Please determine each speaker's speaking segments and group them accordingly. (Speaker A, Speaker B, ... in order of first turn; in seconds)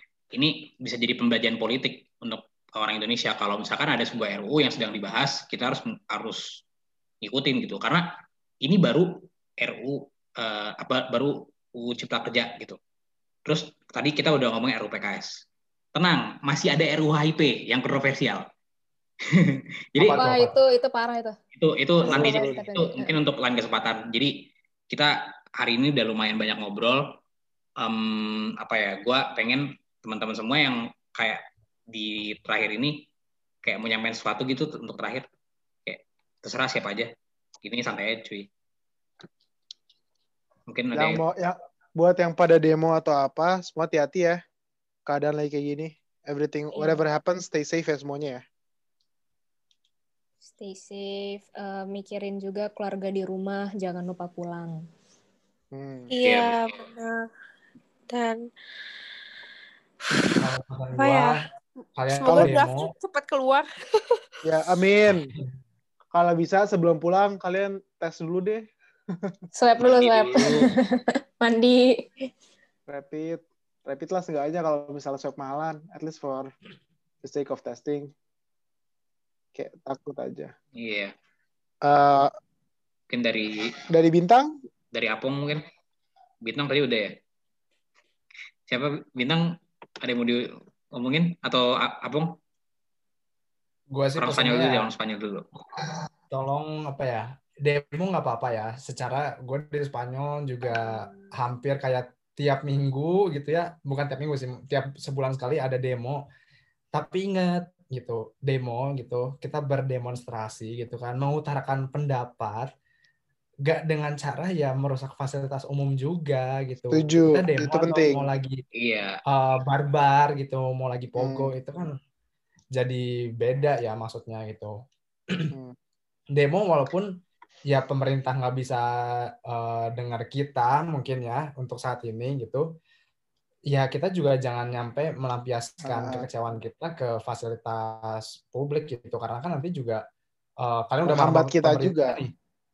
Speaker A: 0.3-6.4, 7.2-8.0, 8.6-9.1, 9.6-12.8, 13.4-15.3, 15.9-18.4, 19.3-20.3, 21.5-24.3, 24.9-27.1, 27.8-33.0, 33.6-35.2, 35.9-37.1, 37.6-38.5, 40.7-41.2, 56.2-56.9, 69.8-70.7, 80.8-81.1, 83.1-83.7, 84.9-85.6, 86.4-87.1, 88.7-89.4, 90.0-92.3, 94.2-95.4, 118.8-119.2
Speaker B: 20.0-20.5, 60.4-61.4, 62.0-62.9, 93.9-94.9, 96.3-106.2, 106.9-112.7, 113.7-118.6, 119.3-121.9, 122.7-124.8, 126.3-127.1, 127.7-128.8, 129.5-132.6, 133.7-140.0, 140.6-142.3
Speaker C: 20.2-21.4, 22.0-23.1, 50.5-54.8, 69.5-72.3
Speaker D: 22.0-22.5, 40.9-44.4, 45.1-48.4, 55.7-56.1, 62.2-62.6, 64.4-65.3, 66.1-68.7, 72.9-76.5, 77.2-78.1, 79.5-80.5, 81.8-82.3, 83.9-84.5, 116.9-118.3, 121.2-121.5, 135.8-136.2, 141.0-142.2
Speaker E: 56.1-57.3, 58.1-58.5, 61.0-61.4, 62.1-64.4, 100.7-101.3